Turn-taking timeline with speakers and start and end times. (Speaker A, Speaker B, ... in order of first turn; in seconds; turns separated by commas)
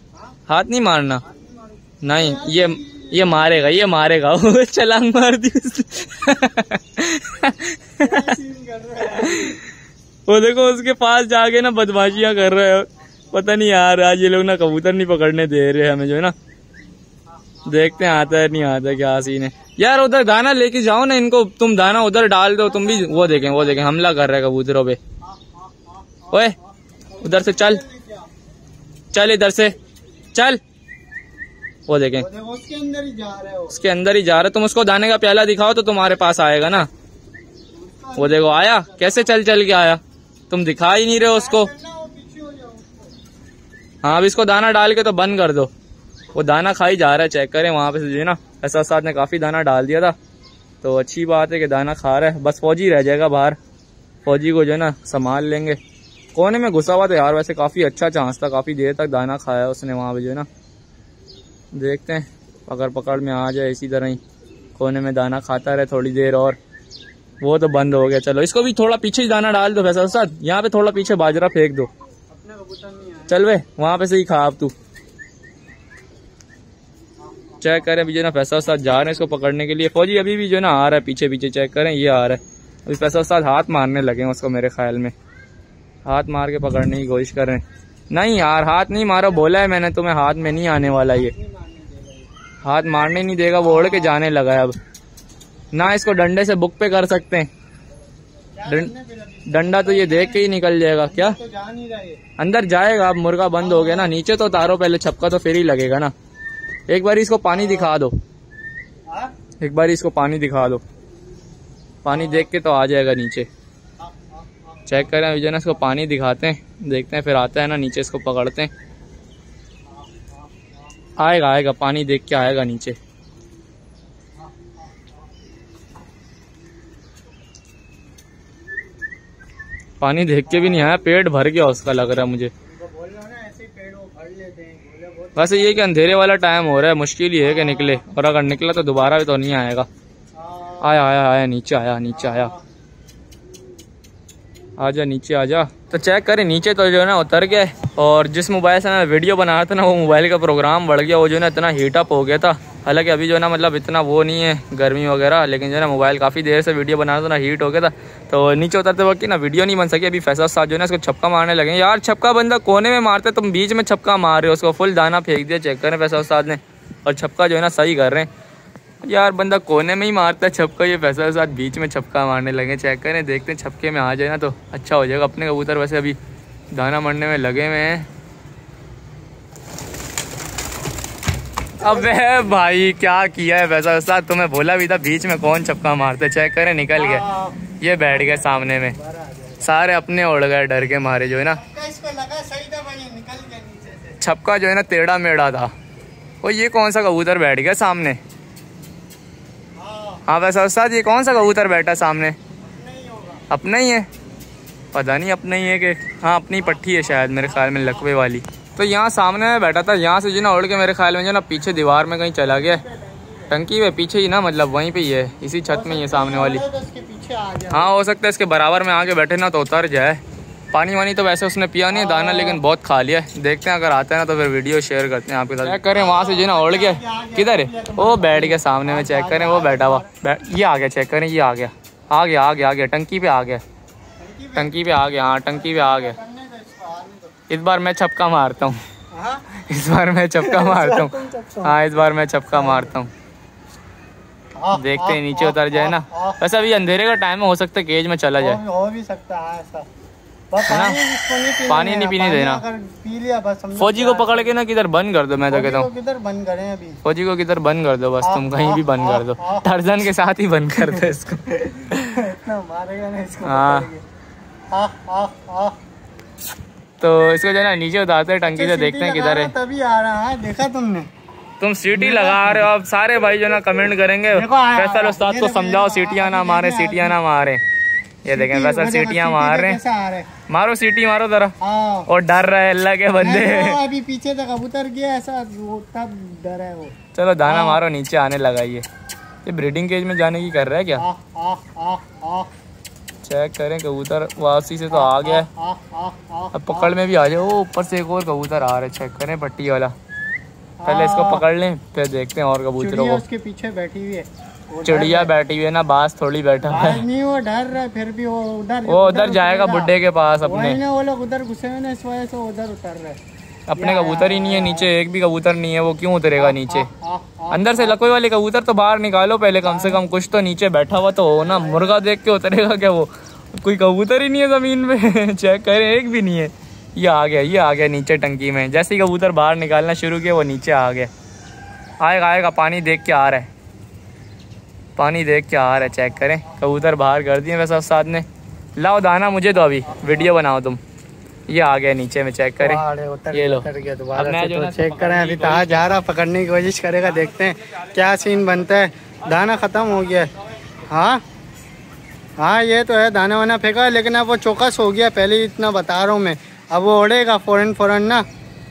Speaker A: 0.5-1.2, Speaker B: 1.2-3.5, Speaker A: 2.0-8.4, Speaker B: 8.0-9.6, Speaker A: 9.1-9.7, Speaker A: 10.3-16.4, Speaker B: 17.4-18.7, Speaker A: 17.6-25.0, Speaker B: 22.7-23.8, Speaker B: 25.2-28.3, Speaker A: 27.2-27.8, Speaker A: 29.1-29.8, Speaker A: 30.3-30.6, Speaker A: 31.9-32.3, Speaker B: 32.2-33.8, Speaker A: 33.7-36.9, Speaker B: 37.7-39.3, Speaker A: 38.2-41.7, Speaker B: 41.1-43.1, Speaker A: 44.0-45.7, Speaker A: 46.4-50.2, Speaker A: 50.8-53.6, Speaker A: 54.2-55.8, Speaker A: 56.4-60.5, Speaker A: 61.7-64.2, Speaker A: 64.8-66.6, Speaker A: 67.4-71.9, Speaker B: 72.3-73.4, Speaker A: 73.3-74.7, Speaker B: 77.3-77.8, Speaker A: 77.6-85.1, Speaker A: 86.0-91.3, Speaker B: 91.1-92.3, Speaker A: 92.6-94.8, Speaker B: 93.6-94.1, Speaker A: 95.7-97.5, Speaker B: 98.6-100.5, Speaker A: 98.7-98.9, Speaker A: 99.5-101.4, Speaker B: 101.1-102.2, Speaker A: 102.4-106.1, Speaker B: 103.6-104.1, Speaker A: 106.9-108.2, Speaker B: 107.5-107.9, Speaker A: 109.6-110.8, Speaker A: 112.0-113.5, Speaker B: 112.1-112.5, Speaker B: 114.0-114.9, Speaker A: 114.9-118.7, Speaker B: 120.0-120.3, Speaker A: 121.2-123.0, Speaker B: 124.4-125.1, Speaker A: 130.0-132.5, Speaker B: 130.5-130.8, Speaker B: 132.7-135.9, Speaker A: 135.4-139.9, Speaker B: 137.4-138.0, Speaker B: 140.3-141.0, Speaker A: 140.8-142.5, Speaker B: 142.1-142.6, Speaker A: 144.8-168.3, Speaker A: 169.0-176.2, Speaker A: 176.7-178.1, Speaker A: 181.8-187.2, Speaker B: 181.8-182.1, Speaker B: 187.0-187.6, Speaker A: 187.8-189.0, Speaker B: 188.1-189.7, Speaker A: 189.6-191.6, Speaker B: 191.6-194.2, Speaker A: 194.2-195.7, Speaker A: 196.4-198.2, Speaker B: 199.8-200.2, Speaker A: 200.3-202.4, Speaker B: 202.6-203.4, Speaker A: 203.5-204.1, Speaker A: 204.9-212.8, Speaker B: 206.6-208.1, Speaker B: 212.4-213.5, Speaker A: 213.5-216.6, Speaker B: 215.7-217.9, Speaker A: 217.7-220.2, Speaker A: 220.7-233.6, Speaker B: 221.9-222.6, Speaker B: 225.9-230.1, Speaker B: 234.2-234.7, Speaker A: 234.6-236.2, Speaker B: 235.5-237.3, Speaker A: 237.5-238.8, Speaker B: 239.1-239.5, Speaker A: 239.5-243.1, Speaker B: 240.4-241.8, Speaker B: 242.5-242.9, Speaker B: 244.6-246.4, Speaker A: 244.7-248.6, Speaker B: 248.4-249.9, Speaker B: 250.5-254.5, Speaker A: 250.6-251.0, Speaker A: 251.7-252.6, Speaker A: 253.8-255.9, Speaker B: 255.5-257.0, Speaker A: 257.0-262.2, Speaker B: 258.2-259.7, Speaker B: 261.7-264.0, Speaker A: 263.4-263.9, Speaker B: 264.7-265.8, Speaker A: 267.0-269.5, Speaker B: 268.4-271.1, Speaker A: 271.6-277.6, Speaker B: 271.9-272.7, Speaker B: 274.3-277.2, Speaker A: 278.2-279.8, Speaker B: 278.3-280.3, Speaker A: 280.5-281.6, Speaker B: 281.6-282.1, Speaker A: 282.1-283.8, Speaker B: 283.2-287.8, Speaker A: 287.1-288.9, Speaker A: 289.4-291.1, Speaker B: 291.0-292.5, Speaker A: 293.2-295.5, Speaker B: 294.9-296.9, Speaker A: 296.5-299.9, Speaker B: 300.8-301.5, Speaker A: 300.9-303.2, Speaker B: 302.8-305.3, Speaker A: 304.9-307.0, Speaker B: 306.7-309.9, Speaker A: 308.9-310.8, Speaker B: 310.4-313.2, Speaker A: 313.7-316.9, Speaker B: 313.8-314.9, Speaker B: 316.4-318.0, Speaker A: 317.5-331.1, Speaker B: 319.6-320.0, Speaker B: 321.4-322.0, Speaker A: 332.0-333.5, Speaker A: 335.0-340.8, Speaker B: 339.9-340.3, Speaker A: 341.5-346.1, Speaker B: 342.6-350.3, Speaker A: 347.1-348.6, Speaker A: 349.2-350.5, Speaker B: 350.9-351.2, Speaker B: 352.4-358.3